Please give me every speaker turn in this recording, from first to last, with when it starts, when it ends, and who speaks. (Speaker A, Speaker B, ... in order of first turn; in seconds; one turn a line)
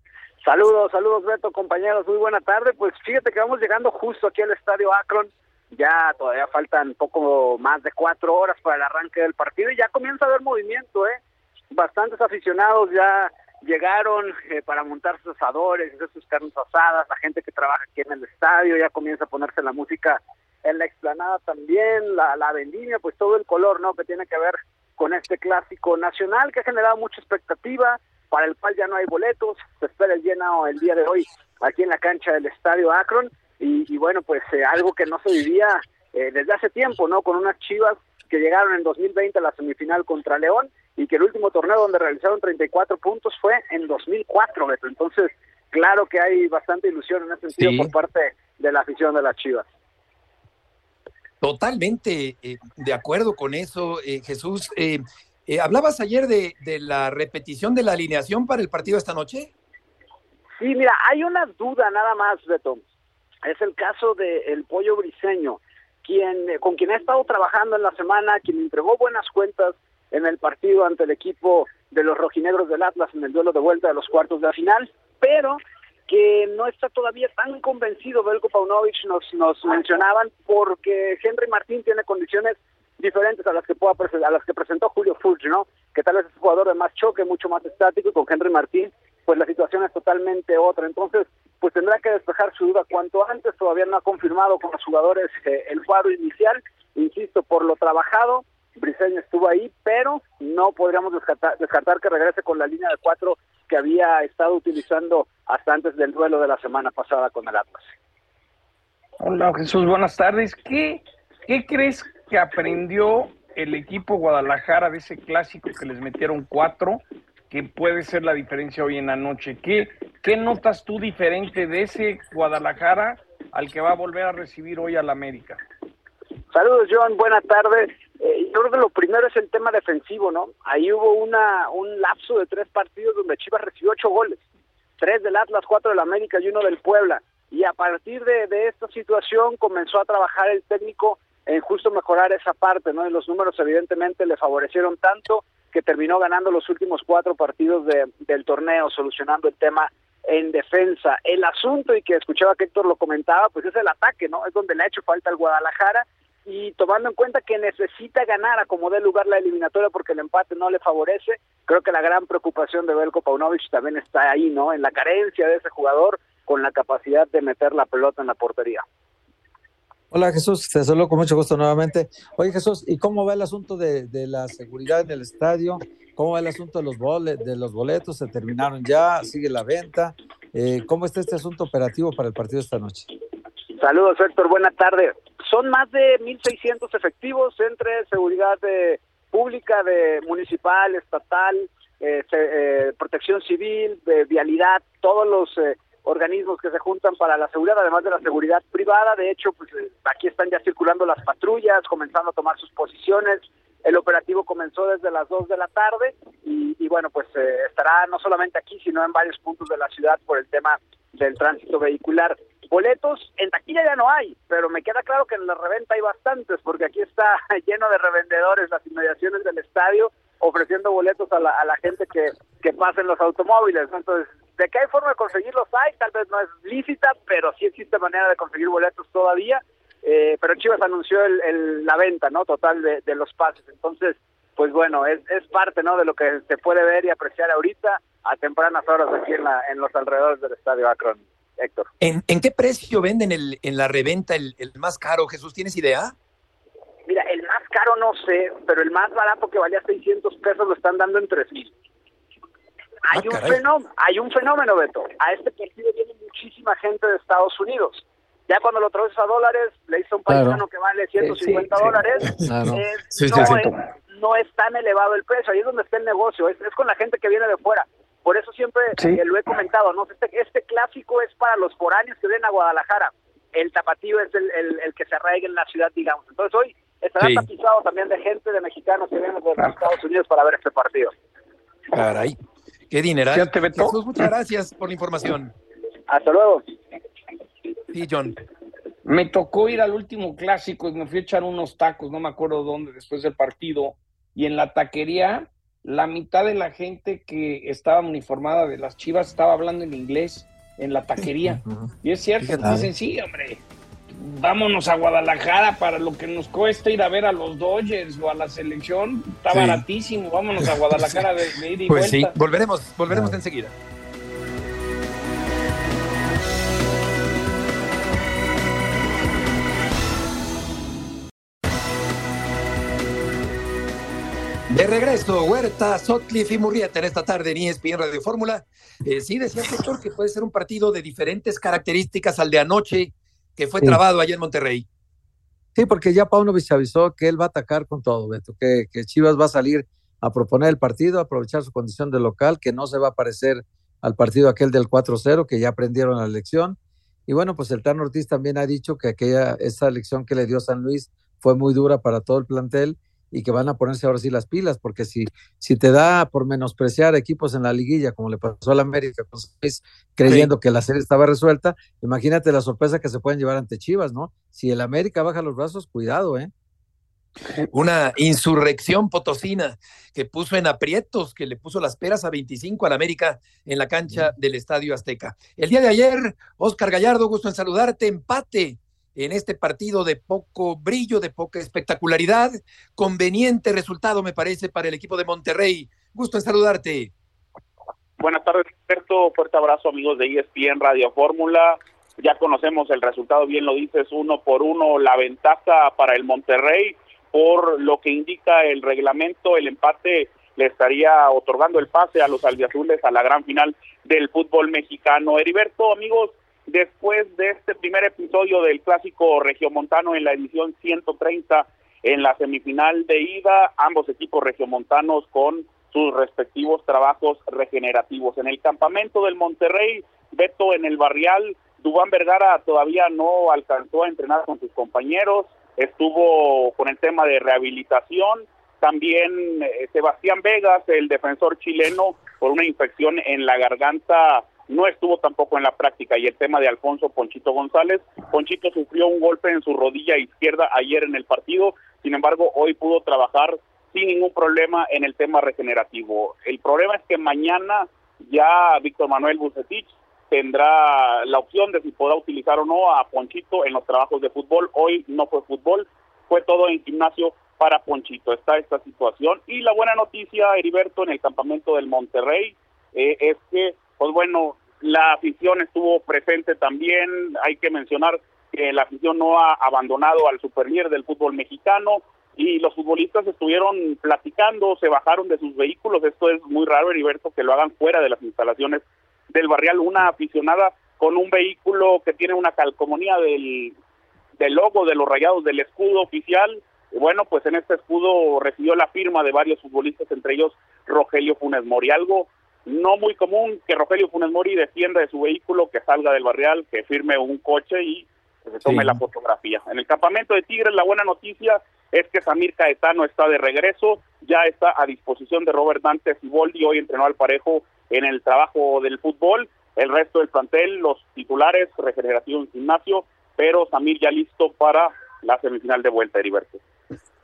Speaker A: 0.4-11.2
Speaker A: 11.7-49.6
Speaker B: 47.6-47.9
Speaker B: 51.4-59.5
Speaker A: 60.6-62.8
Speaker A: 63.5-107.9
Speaker C: 109.2-125.6
Speaker A: 126.5-134.4
Speaker A: 135.0-168.8
Speaker D: 170.1-183.1
Speaker A: 183.8-241.9
Speaker B: 242.0-246.1
Speaker A: 247.1-251.7
Speaker A: 253.1-281.1
Speaker B: 253.1-253.6
Speaker D: 260.3-260.6
Speaker C: 261.2-262.0
Speaker D: 262.4-262.8
Speaker B: 263.1-263.6
Speaker C: 263.3-263.8
Speaker C: 269.0-269.2
Speaker B: 277.2-277.4
Speaker B: 281.9-282.4
Speaker B: 282.9-285.5
Speaker C: 283.3-284.3
Speaker A: 286.1-286.6
Speaker B: 287.9-288.4
Speaker C: 289.1-312.4
Speaker D: 301.5-302.9
Speaker B: 309.5-309.8
Speaker B: 310.9-311.2
Speaker B: 311.9-313.7
Speaker D: 313.1-313.4
Speaker B: 324.7-334.9
Speaker D: 335.8-366.5
Speaker B: 360.2-360.5
Speaker B: 367.7-387.1
Speaker E: 388.2-483.8
Speaker E: 484.4-516.6